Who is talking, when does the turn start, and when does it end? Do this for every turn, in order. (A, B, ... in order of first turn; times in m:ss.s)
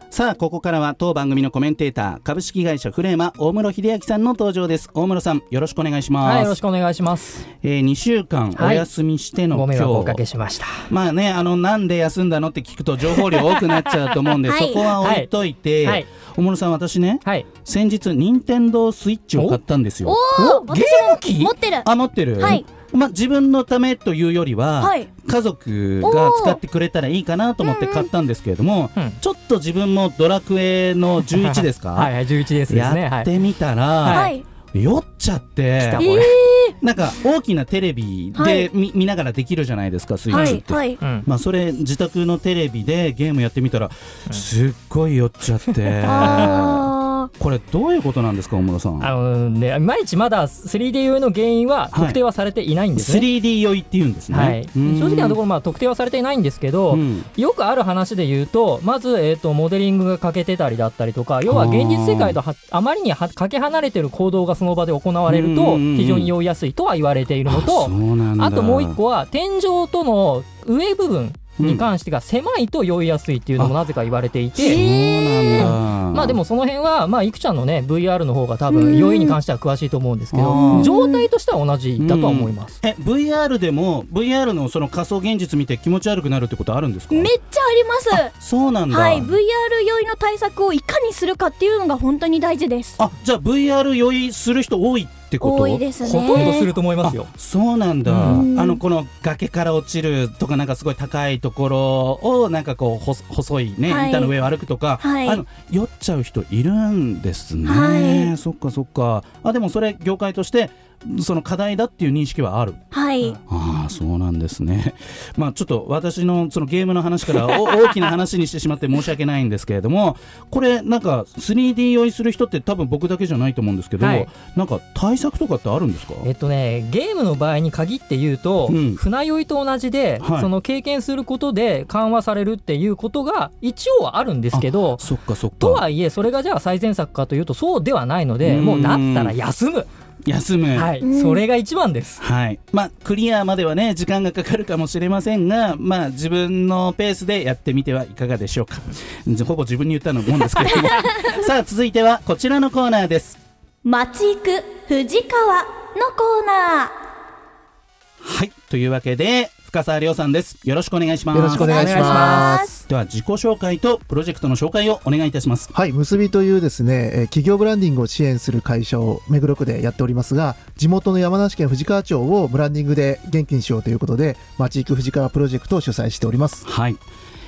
0:00.1-0:06.6 A
0:06.2-0:07.4 B
0:07.6-0:10.2 A
0:08.5-0:08.9 B
0:09.5-0:10.9 B
0:10.9-0:32.1 A
0:13.3-0:14.0 B
0:14.4-0:14.9 C
0:15.0-0:15.3 B
0:20.0-0:22.6 C
0:24.8-0:25.1 C
0:26.0-0:26.6 C
0:27.6-0:28.1 C
0:31.3-0:33.3 B
0:32.7-0:36.0 A
0:34.0-0:34.3 B
0:34.1-0:34.4 C
0:35.8-0:36.4 B
0:36.0-0:36.8 C
0:36.8-0:49.1 A
0:38.4-0:38.7 C
0:40.3-0:41.0 C
0:40.3-0:41.2 B
0:46.0-0:47.3 C
0:49.0-0:53.3 B
0:51.9-0:52.2 A
0:53.0-0:55.4 A
0:54.3-1:14.8 B
0:56.9-0:57.3 A
1:01.5-1:02.4 A
1:05.3-1:06.3 A
1:07.5-1:09.0 A
1:11.6-1:11.8 A
1:14.6-1:16.4 A
1:14.6-1:15.7 C
1:15.6-1:22.7 B
1:18.7-1:19.4 C
1:20.3-1:20.9 A
1:20.5-1:21.3 C
1:22.0-1:27.3 A
1:27.1-1:28.3 C
1:28.1-1:29.4 A
1:28.9-1:33.0 C
1:33.0-1:52.8 A
1:35.4-1:36.7 C
1:36.0-1:37.3 B
1:38.1-1:38.4 B
1:38.2-1:38.8 C
1:43.9-1:44.3 C
1:45.0-1:45.4 C
1:47.6-1:48.3 C
1:52.9-1:53.4 C
1:53.5-2:06.2 A
2:04.0-2:04.3 B
2:06.2-2:15.0 B
2:08.7-2:09.0 A
2:10.2-2:10.5 A
2:14.5-2:15.8 A
2:15.6-2:19.9 B
2:18.4-2:19.3 A
2:20.2-2:20.9 A
2:20.7-2:22.2 B
2:21.0-2:21.4 C
2:22.2-2:33.4 A
2:30.6-2:31.4 C
2:33.8-2:36.9 C
2:38.2-2:42.1 A
2:41.3-2:42.7 D
2:41.5-2:42.5 B
2:41.6-2:42.8 C
2:42.9-2:45.7 A
2:45.7-2:56.6 D
2:56.6-2:57.0 A